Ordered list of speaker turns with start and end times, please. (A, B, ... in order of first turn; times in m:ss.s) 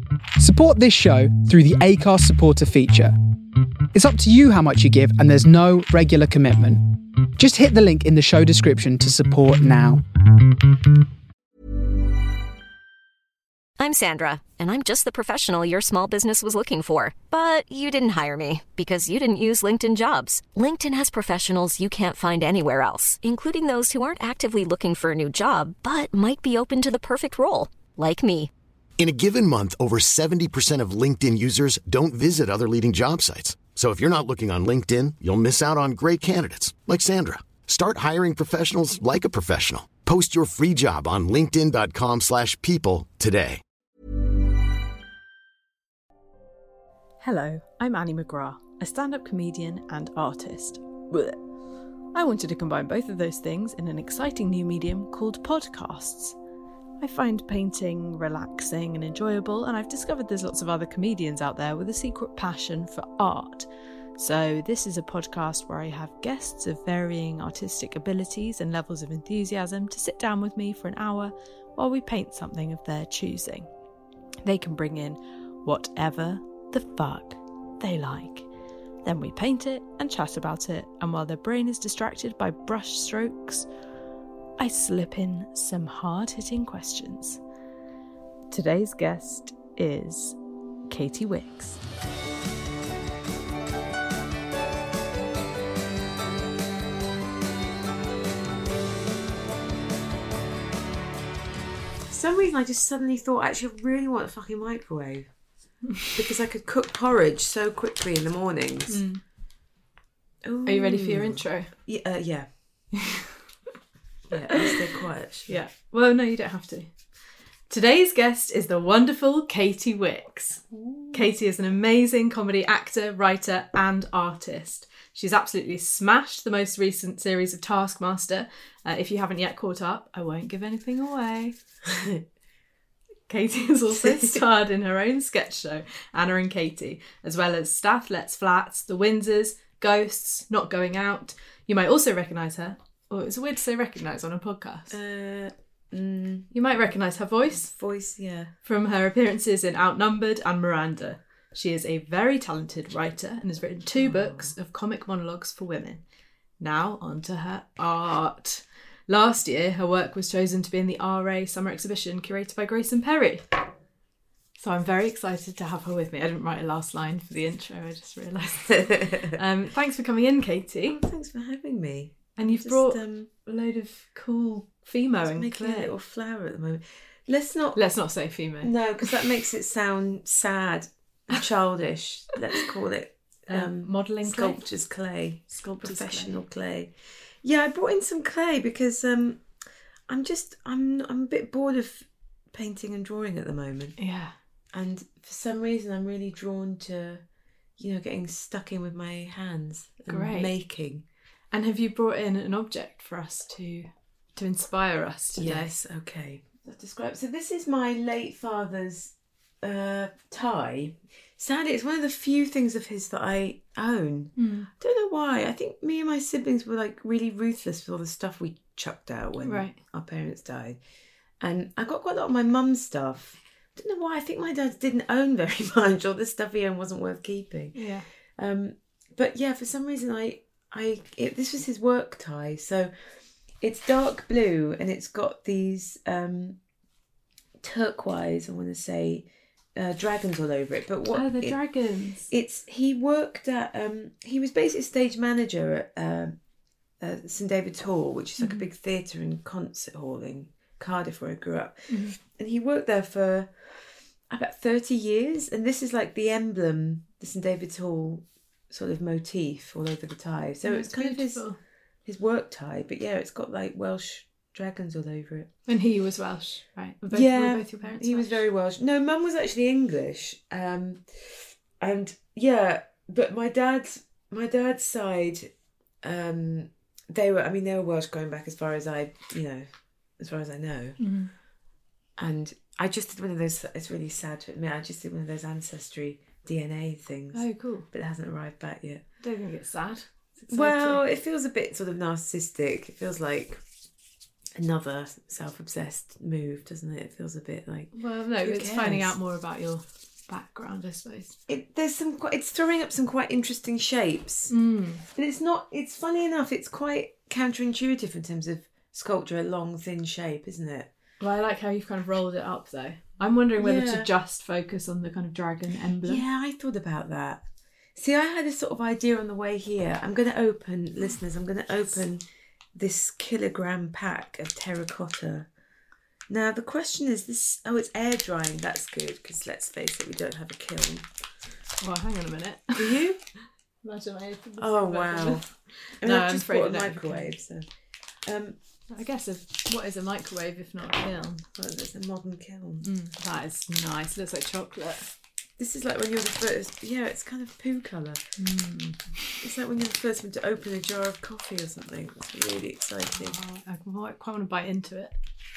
0:00.4-0:03.2 A
0:03.9-0:06.8 A
0:07.4-0:10.0 A
0:13.8-0:28.5 B
0:29.0-0:43.6 C
0:47.2-0:51.4 D
0:52.1-0:56.4 D
0:57.0-1:13.7 D
1:14.4-1:18.5 D
1:19.0-1:23.7 D
1:24.6-1:27.4 D
1:28.5-1:31.8 D
1:42.1-1:45.3 E
1:46.1-1:49.0 E
1:48.9-1:49.2 D
1:50.4-1:52.9 E
1:50.7-1:51.7 D
1:54.3-1:55.6 E
1:55.5-2:11.6 D
2:00.7-2:01.3 E
2:11.9-2:12.2 E
2:13.3-2:25.0 D
2:14.0-2:14.4 E
2:24.9-2:26.9 E
2:26.5-2:27.7 D
2:27.5-2:28.5 E
2:28.6-2:36.0 D
2:34.0-2:34.6 E
2:36.6-2:43.6 D
2:44.6-2:51.0 D
2:48.8-2:49.4 E
2:50.9-2:53.3 E
2:52.4-2:55.9 D
2:55.2-2:57.8 E
2:57.7-2:59.1 D
2:58.6-3:14.0 E
3:03.5-3:04.7 D
3:05.5-3:06.4 D
3:14.0-3:14.4 D
3:14.7-3:17.2 E
3:17.8-3:21.0 E
3:20.1-3:20.5 D
3:21.5-3:25.8 D
3:25.4-3:40.8 E
3:34.4-3:34.7 D
3:39.4-3:39.8 D
3:41.4-3:56.6 E
3:47.7-3:48.1 D
3:57.6-4:06.4 E
4:01.1-4:02.3 D
4:07.0-4:25.5 E
4:08.4-4:08.7 D
4:11.9-4:12.2 D
4:20.6-4:21.6 D
4:25.7-4:28.4 D
4:27.1-4:41.1 E
4:41.0-4:41.3 D
4:42.2-4:49.0 E
4:47.3-4:47.9 D
4:49.2-4:51.0 D
4:50.5-4:53.6 E
4:54.6-4:59.2 E
4:57.9-5:01.4 D
5:01.5-5:04.6 E
5:04.5-5:05.0 D
5:05.1-5:10.9 E
5:11.2-5:16.2 D
5:13.6-5:14.1 E
5:16.0-5:25.5 E
5:26.3-5:31.1 E
5:31.8-5:37.3 D
5:32.8-5:33.2 E
5:34.6-5:37.6 E
5:38.2-5:38.6 E
5:38.9-5:41.4 D
5:41.6-5:42.9 E
5:42.8-5:45.1 D
5:45.6-5:48.4 E
5:48.4-5:49.0 D
5:49.4-5:53.4 E
5:53.2-5:55.2 D